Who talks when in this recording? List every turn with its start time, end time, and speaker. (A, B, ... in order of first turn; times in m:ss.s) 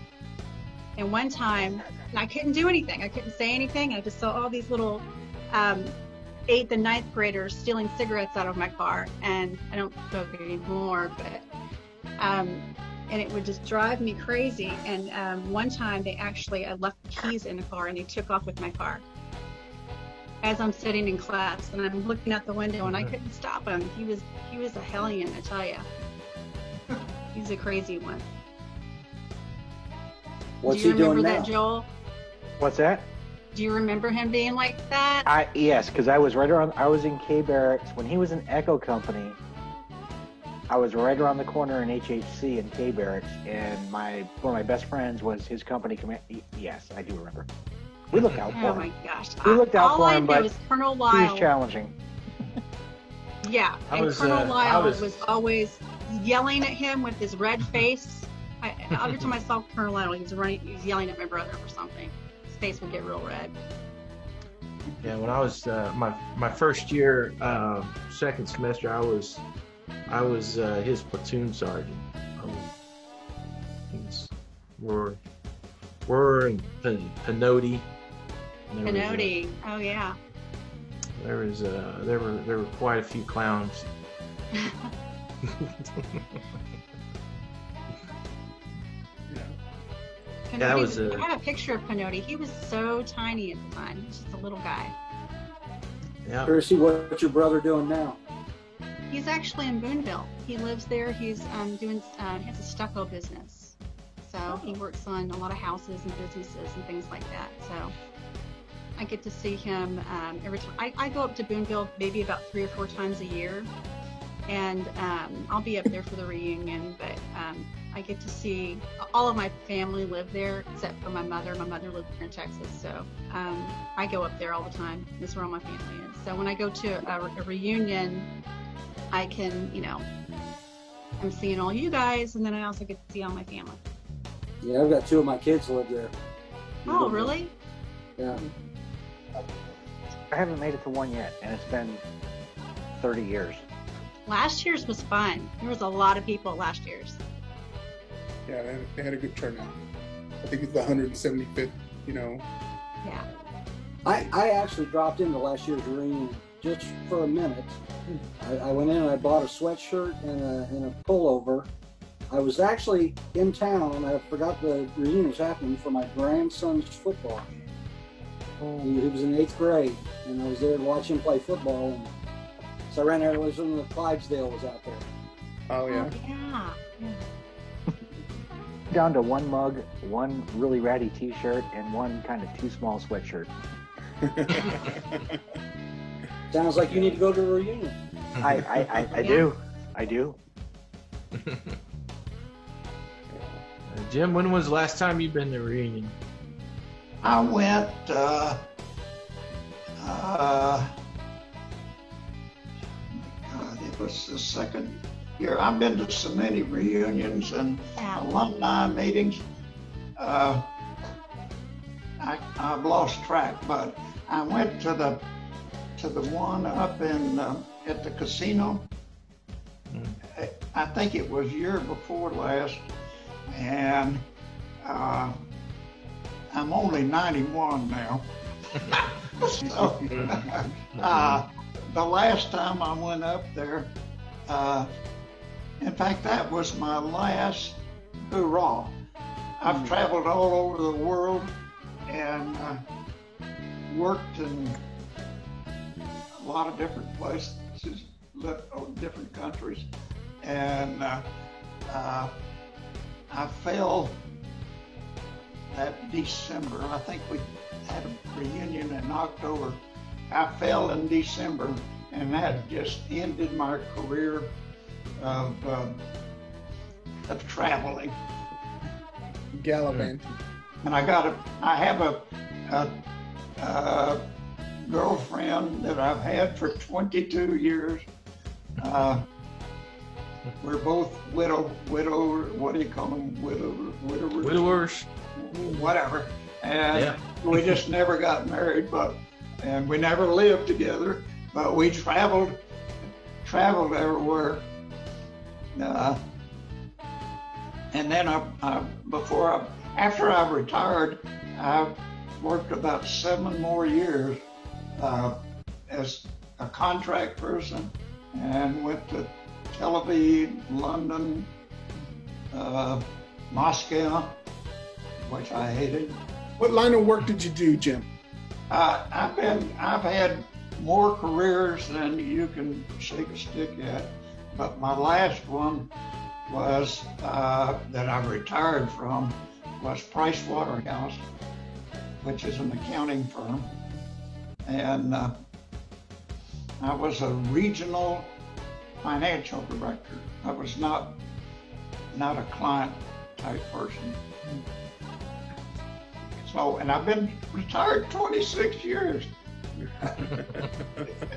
0:01.0-0:06.0 A
0:06.5-0:11.4 A
0:12.2-0:19.0 A
0:20.4-0:25.9 A
0:27.3-0:28.2 A
0:30.6-0:31.5 B
0:30.6-0:31.9 A
0:32.6-0:33.1 C
0:33.5-0:35.3 A
0:35.3-0:39.4 C
0:40.7-0:47.5 C
0:48.1-0:48.9 C
0:48.1-0:48.5 D
0:48.5-0:51.5 A
0:49.4-0:50.5 C
0:51.1-0:51.9 C
0:53.4-1:03.5 A
0:53.9-0:55.2 D
1:05.0-1:09.4 D
1:10.1-1:12.7 D
1:13.9-1:15.2 D
1:16.1-1:17.9 D
1:18.7-1:19.3 D
1:18.8-1:20.2 A
1:21.2-1:23.9 D
1:24.6-1:24.9 A
1:25.5-1:26.2 D
1:29.3-1:29.6 E
1:30.5-1:34.9 A
1:30.6-1:31.2 D
1:36.2-1:36.6 D
1:36.5-1:38.2 B
1:39.1-1:47.9 A
1:49.0-1:53.7 A
1:54.5-2:08.3 A
2:09.1-2:10.1 A
2:11.2-2:13.8 A
2:14.6-2:16.1 B
2:16.9-2:17.3 B
2:16.9-2:17.5 A
2:20.3-2:22.0 C
2:23.0-2:23.6 C
2:24.3-2:27.2 A
2:28.5-2:29.8 E
2:30.4-2:32.4 E
2:34.0-2:37.8 B
2:38.4-2:41.7 B
2:42.3-2:47.5 B
2:48.8-2:52.1 B
2:52.9-2:55.1 B
2:55.7-2:56.1 E
2:55.9-2:57.2 A
2:58.9-3:03.5 C
3:04.2-3:05.0 E
3:06.5-3:08.0 B
3:08.4-3:10.4 C
3:09.1-3:09.5 A
3:11.4-3:11.8 D
3:13.3-3:13.6 E
3:13.9-3:16.2 D
3:17.2-3:18.7 F
3:20.0-3:21.0 F
3:23.1-3:29.4 F
3:28.0-3:28.2 A
3:30.2-3:30.7 F
3:32.2-3:35.3 F
3:36.0-3:38.9 F
3:39.9-3:40.2 D
3:40.3-3:42.9 F
3:43.5-3:44.3 F
3:44.8-3:45.4 F
3:46.5-3:54.0 F
3:50.1-3:50.4 D
3:54.5-3:54.9 F
3:55.8-3:59.0 F
3:59.6-4:02.8 F
3:59.7-3:59.9 E
4:03.9-4:04.8 F
4:06.4-4:09.9 F
4:10.4-4:11.3 F
4:11.9-4:12.4 F
4:13.3-4:14.2 F
4:15.7-4:24.6 F
4:25.2-4:26.0 F
4:27.3-4:28.2 F
4:29.5-4:30.4 E
4:30.8-4:33.0 F
4:33.6-4:34.2 F
4:34.8-4:38.1 F
4:38.8-4:39.3 F
4:40.6-4:44.8 F
4:44.4-4:45.1 D
4:45.4-4:52.6 F
4:46.9-4:47.8 D
4:53.4-4:54.7 F
4:55.8-4:56.3 F
4:57.9-5:04.4 F
5:05.0-5:11.5 F
5:12.5-5:14.4 F
5:15.2-5:16.2 F
5:16.6-5:18.1 E
5:18.7-5:25.9 F
5:26.5-5:31.2 F
5:32.2-5:33.8 F
5:34.6-5:35.4 F
5:36.8-5:38.4 F
5:39.0-5:41.2 F
5:42.1-5:44.2 F
5:46.4-5:49.3 F